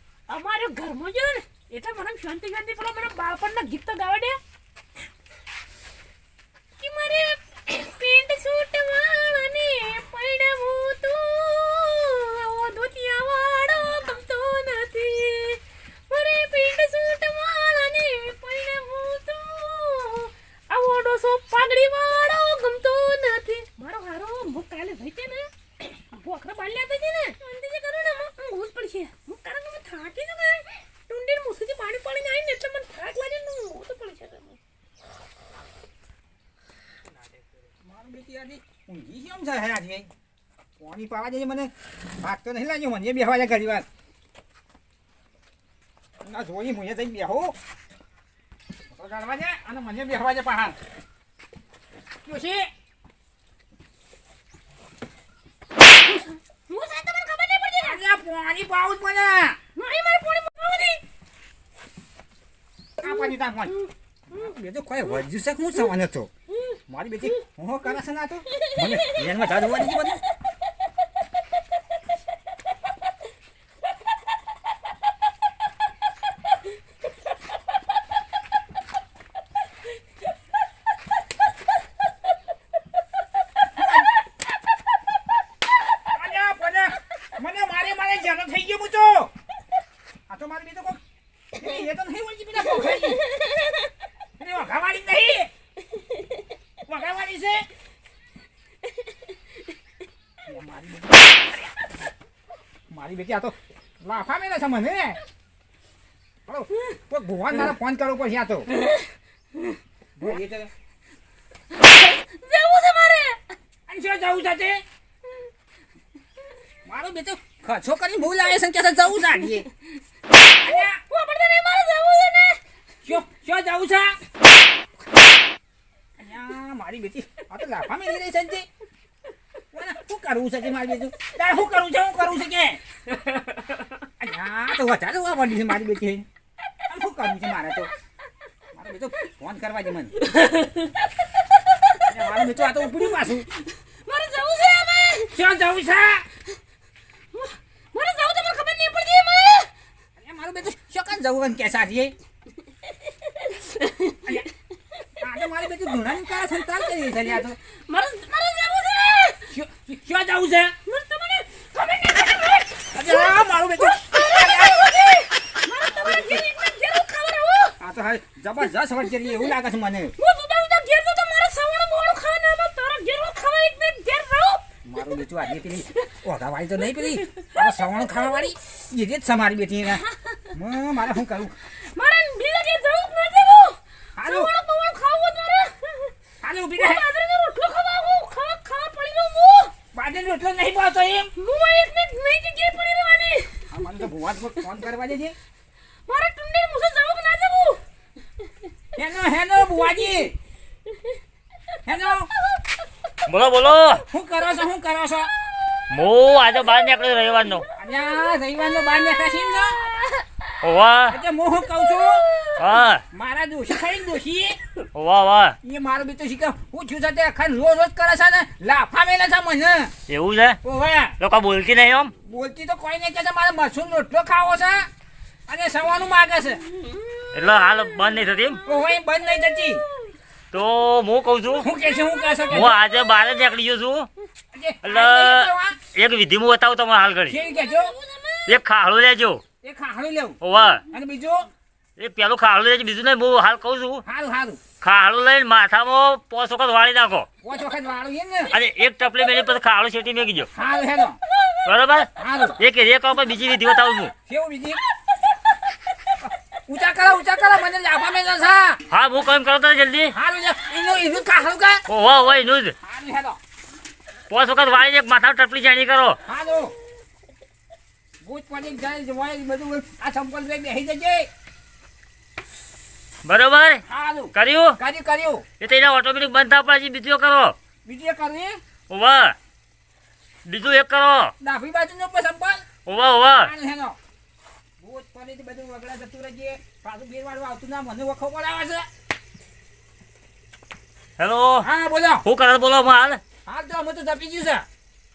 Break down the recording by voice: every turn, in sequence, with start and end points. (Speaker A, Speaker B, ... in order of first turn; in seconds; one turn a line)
Speaker A: 0.3-4.4
Speaker A: 6.8-34.6
Speaker B: 37.7-40.1
Speaker B: 40.8-43.9
Speaker B: 46.2-47.6
Speaker B: 48.9-50.8
Speaker B: 52.2-52.7
Speaker A: 55.9-58.0
Speaker B: 57.8-59.6
Speaker A: 59.8-61.0
Speaker B: 63.0-63.8
Speaker A: 63.1-63.9
Speaker B: 64.3-66.3
Speaker A: 66.5-66.8
Speaker B: 66.9-70.2
Speaker B: 83.7-84.2
Speaker B: 86.1-89.3
Speaker B: 90.3-91.0
Speaker B: 91.5-93.3
Speaker B: 94.4-95.5
Speaker B: 96.8-97.7
Speaker B: 100.4-101.4
Speaker B: 102.9-105.2
Speaker B: 106.5-108.7
Speaker B: 110.2-110.7
Speaker A: 111.7-113.5
Speaker B: 113.9-114.8
Speaker B: 116.8-119.7
Speaker B: 120.6-121.0
Speaker A: 120.6-122.6
Speaker B: 123.0-124.2
Speaker B: 126.2-128.7
Speaker B: 129.7-132.8
Speaker B: 134.2-136.3
Speaker B: 136.8-137.9
Speaker B: 138.7-140.2
Speaker B: 142.0-143.5
Speaker A: 143.9-145.3
Speaker B: 145.3-146.3
Speaker A: 147.3-149.7
Speaker B: 150.2-152.2
Speaker A: 153.8-154.1
Speaker B: 155.2-157.6
Speaker A: 157.6-159.5
Speaker B: 159.5-160.8
Speaker A: 160.8-167.8
Speaker B: 162.9-165.3
Speaker B: 165.8-166.5
Speaker B: 167.8-170.2
Speaker A: 170.2-174.6
Speaker B: 174.8-181.6
Speaker A: 177.3-177.7
Speaker A: 181.7-186.2
Speaker B: 184.2-184.5
Speaker B: 186.4-187.1
Speaker A: 186.8-189.7
Speaker B: 189.9-191.3
Speaker A: 191.3-193.8
Speaker B: 193.7-195.3
Speaker A: 196.1-197.8
Speaker B: 199.0-200.3
Speaker B: 201.8-202.3
Speaker C: 203.3-204.1
Speaker B: 204.1-205.3
Speaker C: 205.9-207.7
Speaker B: 207.8-209.9
Speaker C: 210.6-211.2
Speaker B: 211.1-212.3
Speaker C: 212.6-213.0
Speaker B: 213.1-214.6
Speaker C: 214.9-215.6
Speaker B: 215.6-219.9
Speaker C: 220.1-220.6
Speaker B: 220.6-221.2
Speaker C: 221.2-222.1
Speaker B: 222.2-224.9
Speaker B: 225.5-226.6
Speaker C: 227.3-228.7
Speaker B: 228.6-229.8
Speaker C: 230.5-231.7
Speaker B: 231.6-232.8
Speaker C: 232.5-234.1
Speaker B: 234.5-235.8
Speaker C: 234.8-237.4
Speaker B: 237.3-238.0
Speaker A: 237.6-238.5
Speaker C: 238.5-239.4
Speaker B: 239.6-241.5
Speaker C: 240.4-240.8
Speaker C: 242.0-244.0
Speaker B: 244.0-244.6
Speaker C: 244.8-247.3
Speaker B: 247.4-248.6
Speaker C: 248.5-250.5
Speaker B: 250.5-251.2
Speaker C: 251.6-254.1
Speaker B: 252.2-252.6
Speaker B: 254.3-254.8
Speaker B: 256.2-258.8
Speaker C: 258.9-260.1
Speaker B: 260.1-261.9
Speaker C: 261.9-262.8
Speaker B: 262.8-263.4
Speaker C: 264.3-266.2
Speaker B: 266.2-266.8
Speaker B: 268.2-271.3
Speaker C: 273.2-273.8
Speaker B: 273.9-275.5
Speaker C: 274.3-274.8
Speaker C: 275.6-277.6
Speaker B: 277.9-278.6
Speaker C: 278.9-279.4
Speaker C: 280.5-281.3
Speaker B: 281.4-282.7
Speaker C: 282.9-283.5
Speaker B: 283.3-284.0
Speaker B: 284.8-288.9
Speaker C: 291.2-291.7
Speaker B: 291.6-292.2
Speaker C: 292.2-293.2
Speaker B: 293.4-294.6